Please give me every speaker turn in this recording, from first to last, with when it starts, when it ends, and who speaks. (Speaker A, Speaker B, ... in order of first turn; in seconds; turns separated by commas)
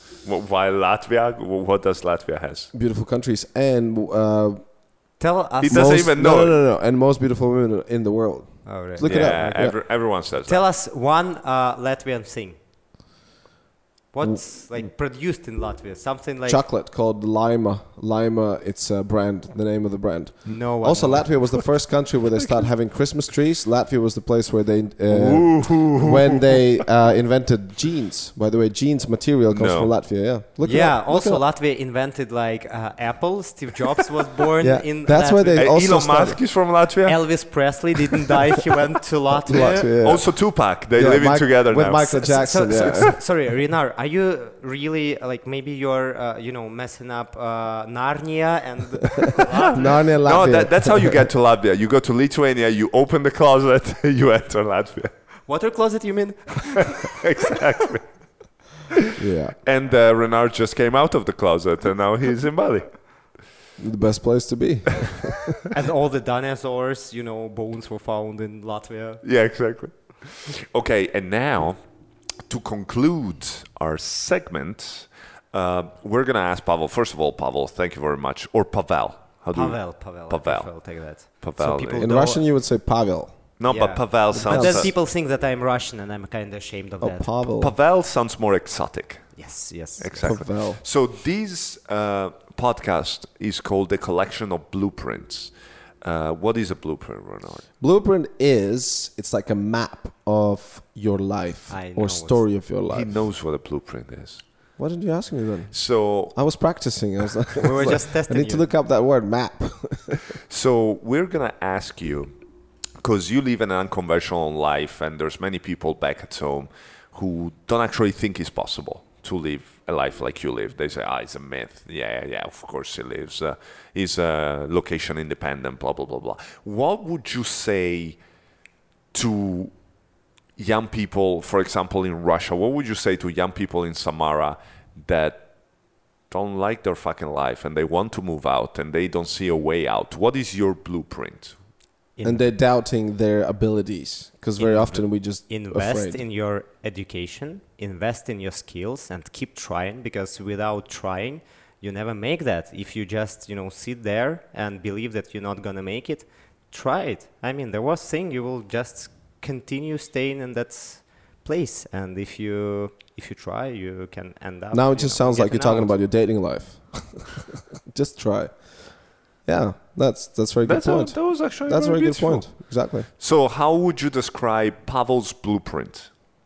Speaker A: 0.2-2.7, Speaker B: 2.7-4.7, Speaker C: 5.2-6.0, Speaker A: 5.6-6.6, Speaker B: 5.7-9.8, Speaker C: 8.7-9.9, Speaker A: 9.0-10.7, Speaker C: 10.5-12.6, Speaker C: 14.1-16.6, Speaker B: 16.5-31.4, Speaker C: 20.4-21.6, Speaker A: 25.1-26.6, Speaker A: 29.5-29.9, Speaker C: 30.6-35.7, Speaker B: 34.6-36.4, Speaker A: 35.5-37.8, Speaker C: 37.0-39.9, Speaker B: 39.5-43.1, Speaker A: 40.0-42.2, Speaker C: 42.2-49.9, Speaker A: 42.8-43.0, Speaker B: 49.7-51.2, Speaker A: 50.2-55.1, Speaker C: 55.5-57.2, Speaker A: 57.0-58.3, Speaker B: 59.2-59.6, Speaker A: 59.6-63.2, Speaker B: 63.8-65.5, Speaker C: 65.7-69.2, Speaker A: 69.2-71.8, Speaker A: 72.5-82.1, Speaker C: 79.5-82.4, Speaker B: 82.0-83.5, Speaker A: 83.6-84.9, Speaker C: 83.7-87.3, Speaker B: 84.3-84.9, Speaker B: 87.0-87.7, Speaker A: 87.6-89.4, Speaker C: 89.4-90.3, Speaker A: 90.0-97.7, Speaker B: 90.2-90.8, Speaker B: 97.8-103.1, Speaker C: 101.7-102.4, Speaker A: 102.9-104.4, Speaker B: 104.8-110.2, Speaker A: 105.7-106.4, Speaker C: 107.6-108.7, Speaker A: 110.5-112.3, Speaker A: 113.0-128.2, Speaker A: 129.1-129.7, Speaker A: 130.6-135.5, Speaker A: 136.3-141.6, Speaker C: 142.2-142.4, Speaker B: 142.2-146.2, Speaker C: 144.6-166.0, Speaker B: 164.7-173.1, Speaker A: 170.7-176.1